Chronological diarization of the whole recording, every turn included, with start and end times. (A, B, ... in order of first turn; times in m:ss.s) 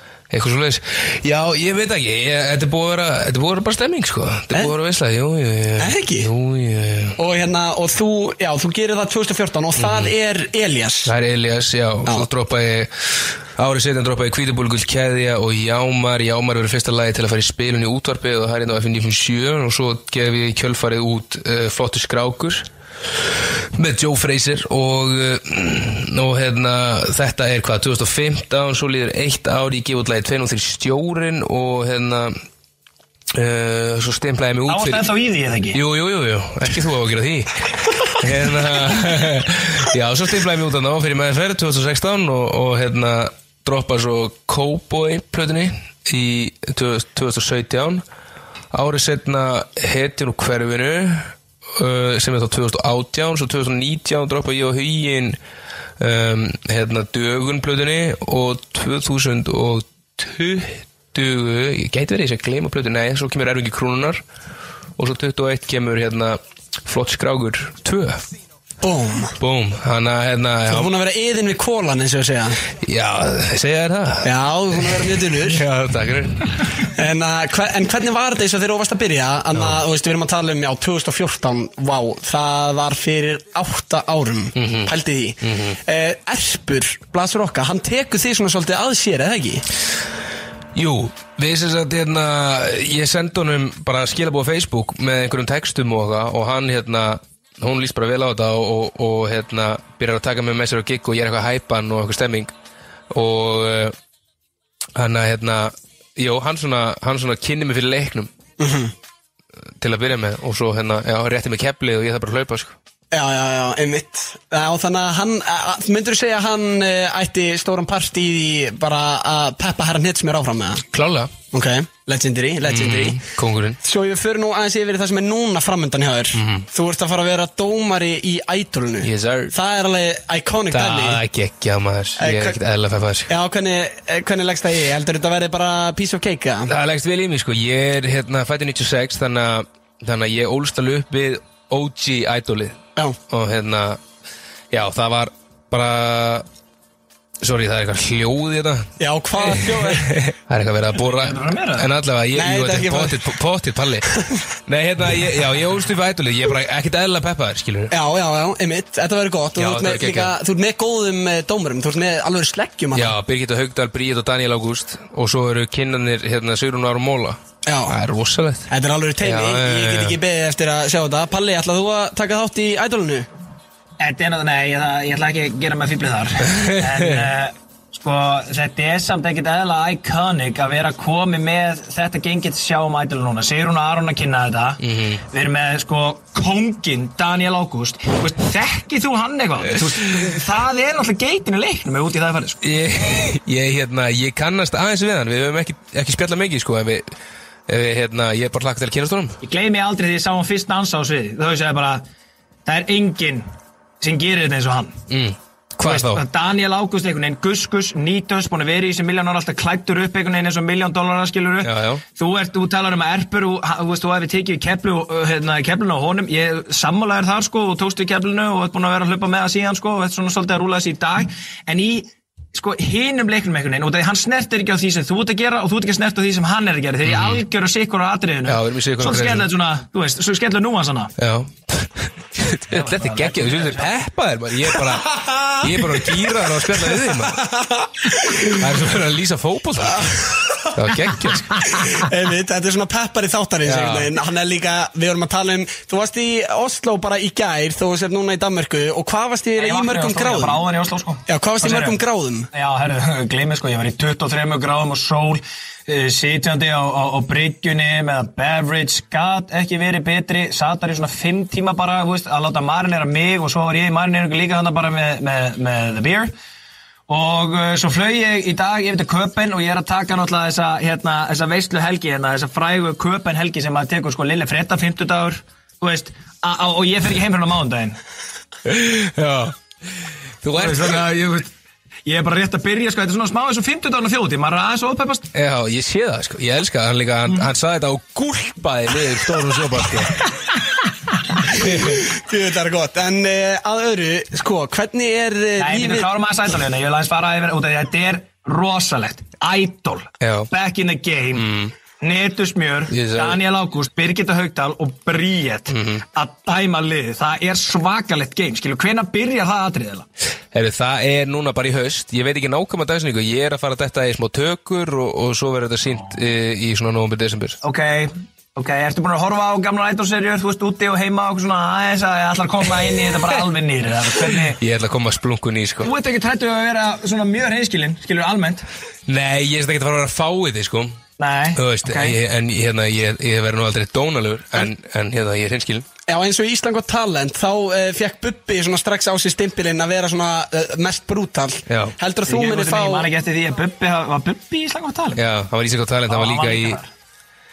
0:00.3-0:07.2 A
0:05.8-0:06.3 B
0:07.2-0:11.1 B
0:09.8-0:10.1 A
0:11.1-0:22.7 A
0:23.8-0:32.4 A
0:33.4-0:35.1 A
0:34.7-0:35.8 C
0:35.7-0:48.0 A
0:48.7-0:55.4 A
0:56.0-1:04.2 A
1:05.0-1:08.3 A
1:08.8-1:09.3 B
1:09.4-1:10.9 A
1:10.7-1:12.6 B
1:12.8-1:14.3 A
1:14.2-1:15.6 B
1:14.9-1:16.7 A
1:16.9-1:29.6 B
1:24.6-1:24.9 A
1:25.4-1:25.8 A
1:30.8-1:42.5 A
1:43.1-1:44.0 A
1:45.0-1:48.3 A
1:48.6-1:48.9 B
1:49.8-1:52.7 A
1:53.1-2:00.8 B
2:00.9-2:01.3 A
2:01.5-2:03.2 B
2:02.7-2:03.8 A
2:03.8-2:11.2 B
2:06.4-2:06.7 A
2:09.0-2:09.5 A
2:10.7-2:13.3 A
2:12.2-2:12.6 B
2:13.3-2:16.7 B
2:16.7-2:22.8 A
2:23.3-2:24.0 A
2:24.7-2:26.4 A
2:27.4-2:34.1 A
2:29.0-2:30.1 B
2:31.0-2:31.9 C
2:32.3-2:33.3 B
2:34.1-2:34.4 B
2:34.7-2:37.9 A
2:37.9-2:43.2 B
2:39.6-2:40.3 A
2:42.9-2:48.7 A
2:47.6-2:48.0 B
2:48.7-2:53.3 B
2:49.2-2:50.2 A
2:54.0-3:12.6 C
2:56.5-2:57.3 A
3:04.8-3:05.2 A
3:12.6-3:17.1 A
3:17.7-3:19.4 A
3:19.4-3:22.0 C
3:22.7-3:23.5 C
3:24.0-3:25.0 C
3:25.1-3:26.2 A
3:25.8-3:51.1 C
3:31.6-3:32.0 A
3:47.0-3:47.4 A
3:48.5-3:49.5 A
3:51.2-3:57.4 A
3:52.7-3:54.0 C
3:55.4-3:55.6 B
3:57.2-3:58.5 B
3:58.4-4:02.0 A
4:00.0-4:00.7 B
4:01.7-4:10.6 B
4:03.7-4:04.1 A
4:09.6-4:12.0 C
4:11.3-4:12.5 B
4:12.5-4:26.3 C
4:27.1-4:38.0 C
4:38.7-4:39.6 A
4:40.4-4:41.0 A
4:40.5-4:41.5 C
4:42.1-4:45.3 C
4:45.4-4:50.3 A
4:51.5-4:52.0 A
4:51.6-4:56.1 B
4:55.6-5:10.1 C
5:00.2-5:00.5 A
5:01.4-5:01.7 A
5:02.9-5:03.4 A
5:05.7-5:06.0 A
5:10.5-5:17.6 A
5:17.6-5:24.6 C
5:24.6-5:25.9 A
5:25.8-5:28.6 C
5:29.1-5:31.0 A
5:31.2-5:32.2 C
5:31.6-5:35.9 A
5:36.1-5:43.1 B
5:41.7-5:42.0 A
5:42.3-5:45.2 C
5:45.2-5:46.8 A
5:46.1-5:46.9 C